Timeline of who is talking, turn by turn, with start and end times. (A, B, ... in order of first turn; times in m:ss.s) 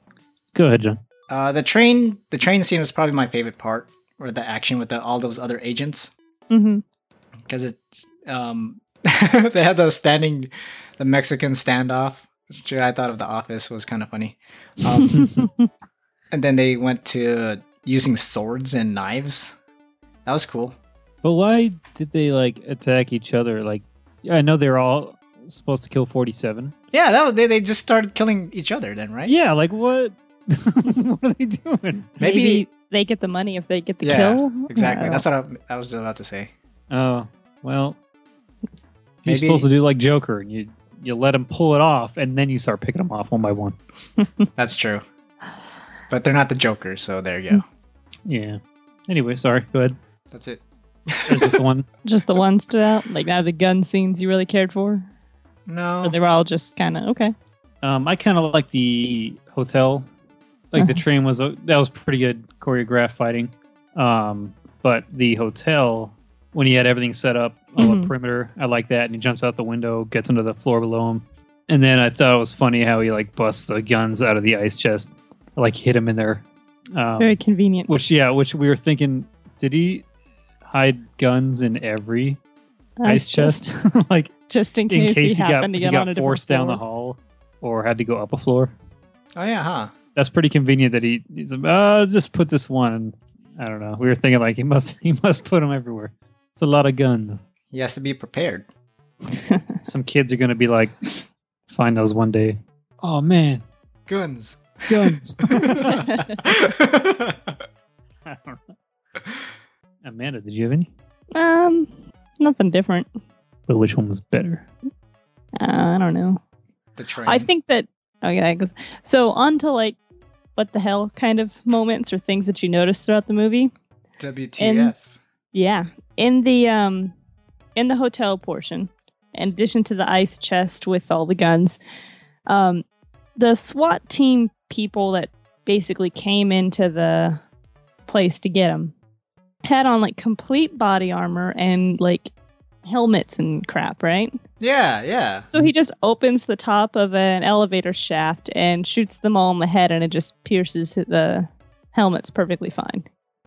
0:00.5-0:01.0 A
0:01.3-0:06.1 B
0:06.5-0:06.8 C
0:07.5-0:15.3 B
0:15.0-0:15.5 C
0:15.1-0:15.4 A
0:16.3-0:19.5 B
0:20.2-0:20.8 B
0:21.2-0:26.7 A
0:26.9-0:29.3 B
0:29.3-0:32.1 A
0:32.2-0:32.6 B
0:32.2-0:35.2 C
0:34.0-0:36.5 B
0:36.9-0:38.0 A
0:39.2-0:43.8 A
0:39.3-0:39.7 B
0:44.2-0:44.4 C
0:44.6-0:45.0 B
0:46.1-0:47.6 B
0:48.2-0:50.0 A
0:50.3-0:51.6 B
0:51.3-0:51.8 A
0:52.0-0:55.1 C
0:55.7-0:56.2 B
0:56.0-0:57.3 C
0:57.8-1:00.1 A
1:00.7-1:17.4 A
1:07.8-1:08.1 C
1:17.2-1:17.9 C
1:17.9-1:20.0 A
1:20.6-1:22.4 A
1:23.0-1:23.8 C
1:23.0-1:24.3 A
1:24.5-1:26.8 C
1:24.9-1:28.7 A
1:29.4-1:29.9 B
1:30.2-1:37.4 A
1:37.7-1:38.7 B
1:39.3-1:39.8 C
1:39.8-1:41.0 A
1:41.7-1:43.6 A
1:44.1-1:47.6 B
1:44.9-1:46.0 A
1:45.6-1:46.4 C
1:48.2-1:48.6 A
1:50.0-1:50.9 A
1:51.3-1:53.1 C
1:53.7-1:54.7 A
1:55.6-1:56.4 C
1:57.0-1:57.5 B
1:57.2-2:00.0 C
2:00.6-2:03.7 C
2:04.2-2:05.2 B
2:04.6-2:04.9 C
2:05.5-2:07.1 C
2:07.8-2:11.8 C
2:12.5-2:12.8 C
2:13.4-2:17.4 C
2:18.1-2:18.9 C
2:19.6-2:22.3 C
2:22.8-2:24.3 C
2:24.6-2:25.5 B
2:25.5-2:33.0 C